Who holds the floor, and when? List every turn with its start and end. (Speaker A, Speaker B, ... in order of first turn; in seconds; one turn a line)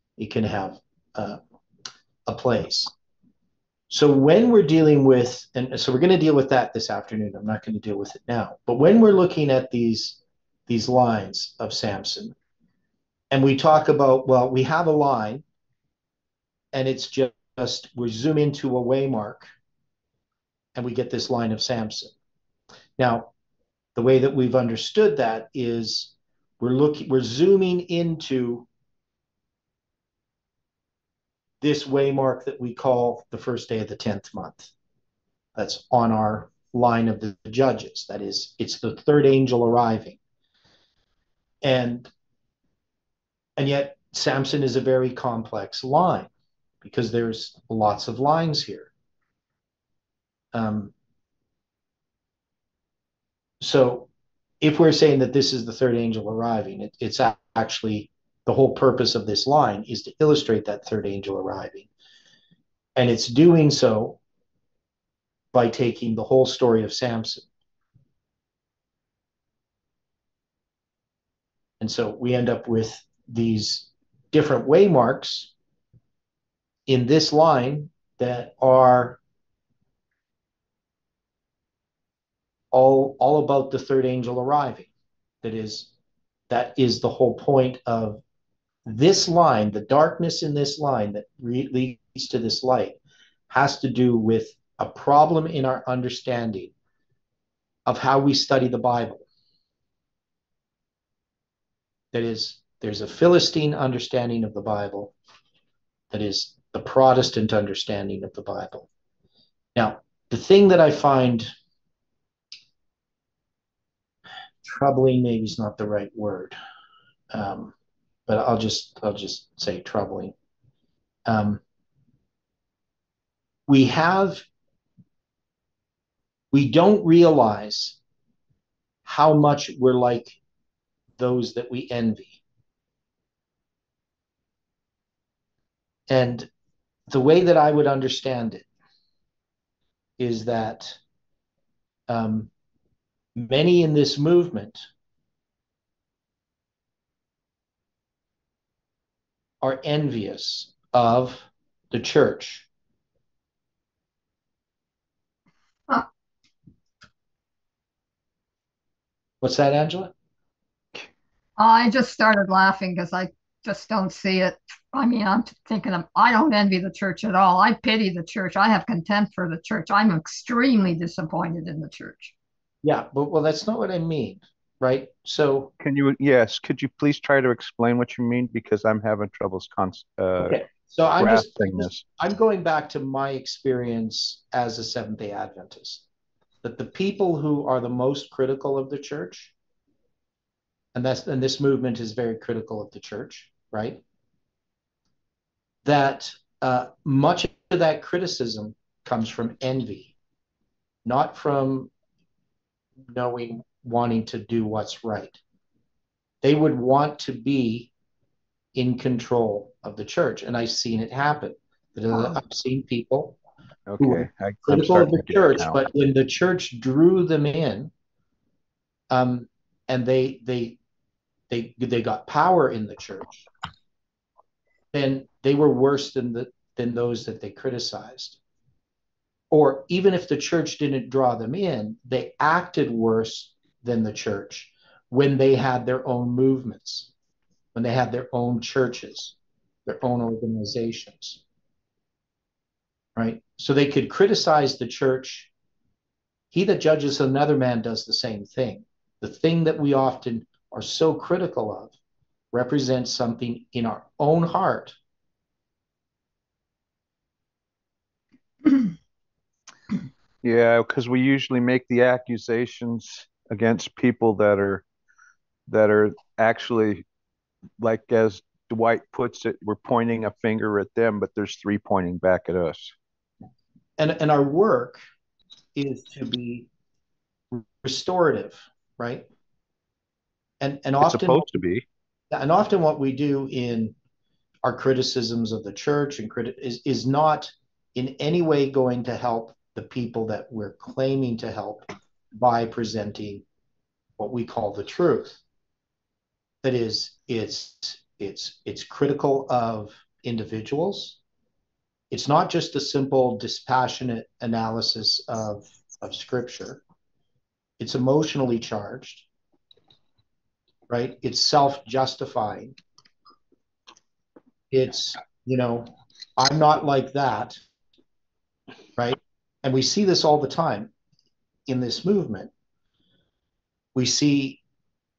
Speaker A: 0.2-1.4
Speaker A: 2.3-2.9
Speaker A: 3.9-12.4
Speaker A: 13.3-15.4
Speaker A: 16.7-19.5
Speaker A: 20.8-22.1
Speaker A: 23.0-23.3
Speaker A: 24.0-28.7
Speaker A: 31.6-34.7
Speaker A: 35.6-40.2
Speaker A: 41.6-42.1
Speaker A: 43.6-46.3
Speaker A: 46.8-48.9
Speaker A: 50.5-50.9
Speaker A: 53.6-54.1
Speaker A: 54.6-61.9
Speaker A: 63.0-64.2
Speaker A: 65.5-67.5
Speaker A: 71.8-75.5
Speaker A: 76.9-79.2
Speaker A: 82.7-84.9
Speaker A: 85.4-85.9
Speaker A: 86.5-88.2
Speaker A: 88.9-93.0
Speaker A: 93.5-96.7
Speaker A: 97.9-99.2
Speaker A: 102.1-105.1
Speaker A: 106.1-108.9
Speaker A: 109.8-111.5
Speaker A: 114.7-116.6
Speaker A: 117.3-117.7
Speaker A: 118.3-120.3
Speaker A: 121.3-121.6
Speaker A: 123.7-124.4
Speaker A: 126.5-128.0
Speaker A: 129.1-130.4
Speaker A: 131.2-132.4
Speaker A: 136.1-136.5
Speaker A: 137.1-138.7
Speaker A: 140.2-141.0
Speaker A: 142.1-142.5
Speaker A: 143.4-144.8
Speaker A: 149.6-152.7
Speaker A: 159.4-160.1
Speaker B: 161.6-172.3
Speaker A: 172.8-175.7
Speaker C: 175.8-180.6
Speaker A: 180.4-186.0
Speaker C: 181.2-182.0
Speaker A: 186.6-189.5
Speaker A: 190.9-194.0
Speaker A: 195.8-200.1
Speaker A: 201.1-201.9
Speaker A: 203.1-205.4
Speaker A: 206.4-207.9
Speaker A: 208.8-213.4
Speaker C: 213.9-215.8
Speaker A: 214.0-217.9
Speaker A: 219.1-220.8
Speaker A: 221.5-223.4
Speaker A: 224.9-228.4
Speaker A: 229.5-237.1
Speaker A: 237.8-239.3
Speaker A: 239.9-241.4
Speaker A: 243.2-245.5
Speaker A: 246.5-251.9
Speaker A: 252.5-255.0
Speaker C: 260.4-264.8
Speaker C: 265.7-267.1
Speaker C: 267.8-272.9
Speaker A: 274.0-275.0
Speaker A: 275.8-276.7
Speaker A: 277.5-279.3
Speaker A: 280.6-281.5
Speaker C: 281.0-281.9
Speaker A: 282.3-283.9
Speaker A: 284.6-293.4
Speaker A: 294.2-295.4
Speaker A: 296.6-301.2
Speaker A: 302.1-306.8
Speaker A: 307.8-309.3
Speaker A: 310.9-312.8
Speaker A: 314.7-317.6
Speaker A: 319.0-320.9
Speaker A: 321.7-322.5
Speaker A: 323.9-324.6